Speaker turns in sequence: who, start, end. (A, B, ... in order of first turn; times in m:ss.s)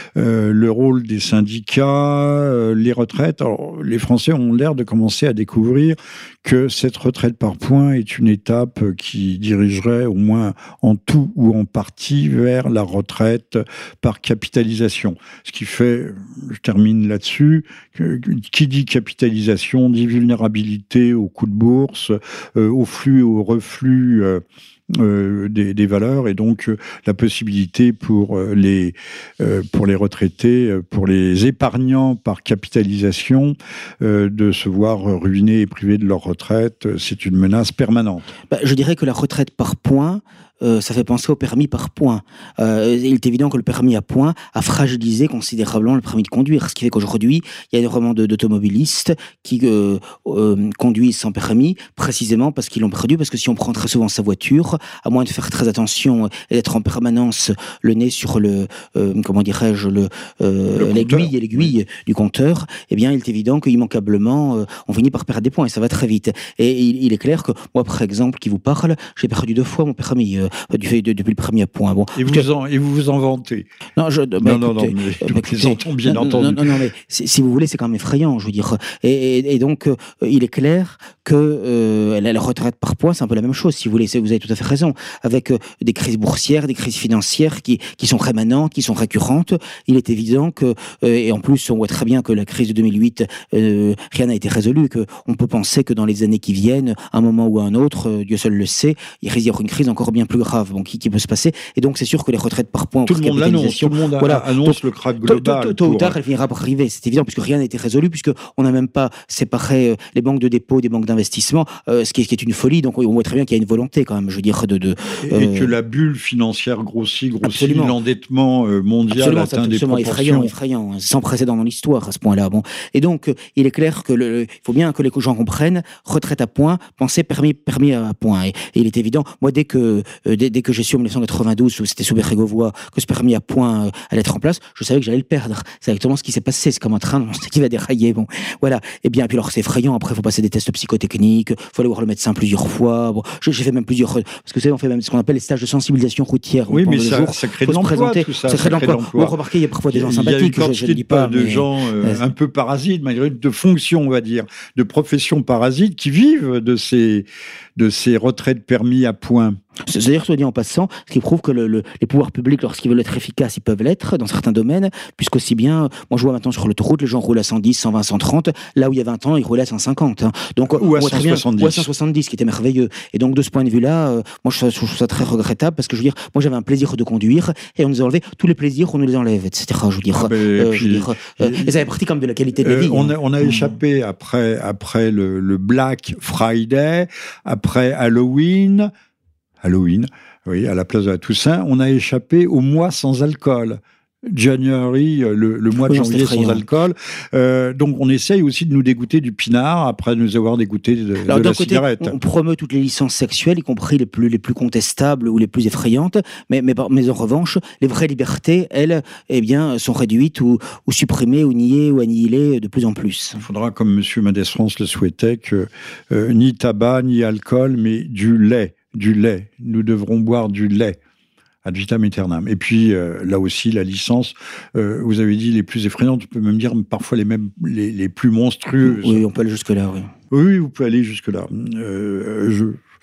0:00.2-0:38.3 A
0:38.5-1:12.5 B
1:00.8-1:01.7 A
1:12.2-1:13.7 A
1:14.0-1:55.7 B
1:14.4-1:16.8 A
1:43.0-1:46.2 A
1:55.2-2:00.5 A
1:57.4-1:58.0 B
1:59.1-2:32.2 B
2:26.7-2:29.4 A
2:29.9-2:39.6 A
2:39.9-3:03.7 B
2:50.8-2:51.9 A
3:00.1-3:01.8 A
3:02.6-3:08.9 A
3:09.6-3:22.2 A
3:15.9-3:16.6 B
3:21.2-3:33.4 B
3:33.4-3:41.0 A
3:41.6-3:49.2 A
3:48.8-3:50.1 B
3:50.3-3:52.8 A